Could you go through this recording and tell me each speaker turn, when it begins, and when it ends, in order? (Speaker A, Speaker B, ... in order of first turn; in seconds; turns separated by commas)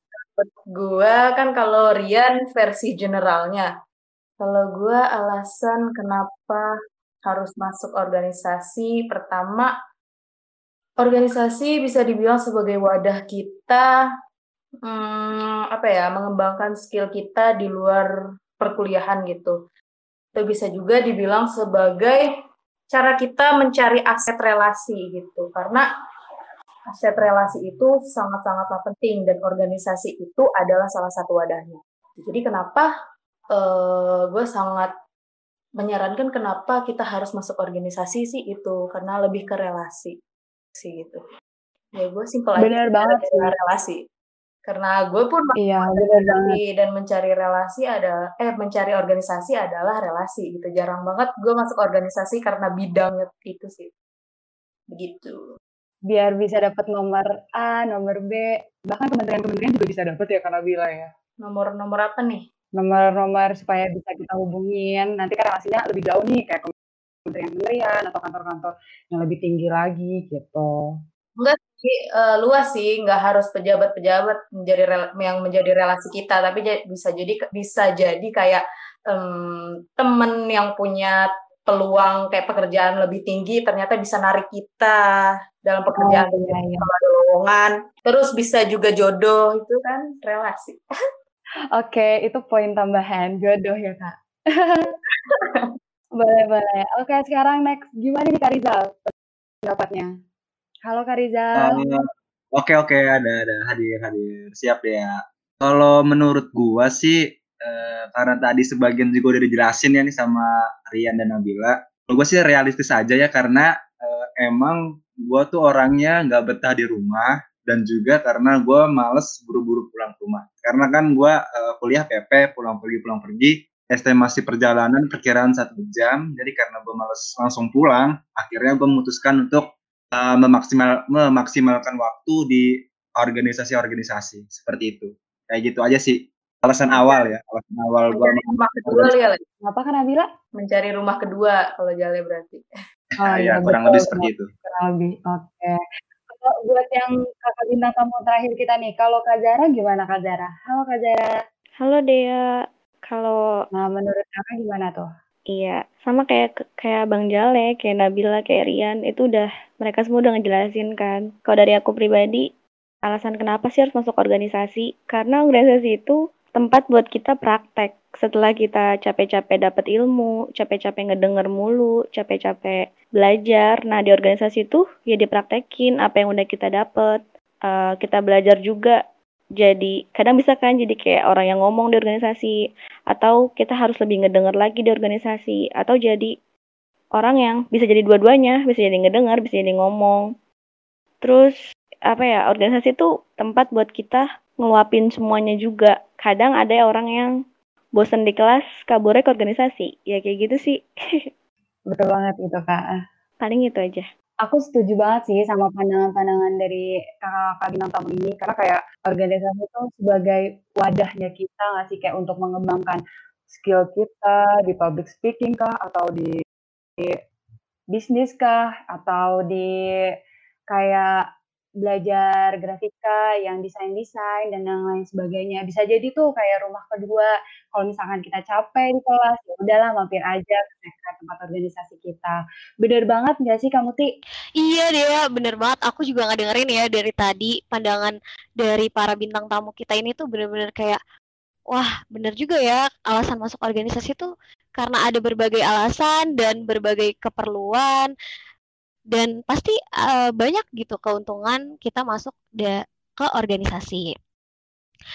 Speaker A: 0.4-3.7, Speaker A: 4.4-6.7, Speaker A: 7.2-9.7, Speaker A: 11.0-13.9, Speaker A: 14.8-18.1, Speaker A: 18.6-19.6, Speaker A: 20.3-22.3, Speaker A: 22.9-25.8, Speaker A: 26.9-32.9, Speaker A: 33.5-34.9, Speaker A: 35.8-40.1, Speaker A: 40.8-41.2, Speaker A: 42.0-44.0, Speaker B: 42.5-43.5, Speaker A: 44.6-53.9, Speaker B: 45.6-46.6, Speaker A: 54.9-55.4, Speaker B: 56.1-61.1, Speaker A: 61.4-62.4, Speaker B: 62.8-66.7, Speaker B: 67.2-71.0, Speaker A: 71.4-85.0, Speaker A: 85.6-90.8, Speaker B: 85.9-86.9, Speaker B: 91.7-94.9, Speaker B: 96.2-99.1, Speaker B: 99.6-100.1, Speaker B: 100.8-101.8, Speaker C: 101.6-139.2, Speaker A: 138.2-139.4, Speaker B: 139.6-140.3, Speaker A: 140.6-142.6, Speaker C: 143.2-144.5, Speaker B: 143.2-145.8, Speaker B: 146.3-151.3, Speaker D: 151.8-152.4, Speaker D: 153.1-153.3, Speaker B: 153.7-155.1, Speaker D: 155.5-162.4, Speaker D: 163.0-179.0, Speaker D: 179.6-182.5, Speaker D: 183.1-186.3, Speaker D: 187.2-190.2, Speaker D: 191.2-191.5, Speaker D: 192.1-197.3, Speaker D: 197.9-201.3, Speaker B: 201.9-203.0, Speaker D: 203.4-204.0, Speaker B: 204.4-216.3, Speaker B: 217.9-219.7, Speaker B: 220.7-221.1, Speaker B: 221.8-234.1, Speaker E: 234.6-241.0, Speaker E: 241.7-248.1, Speaker E: 249.1-254.1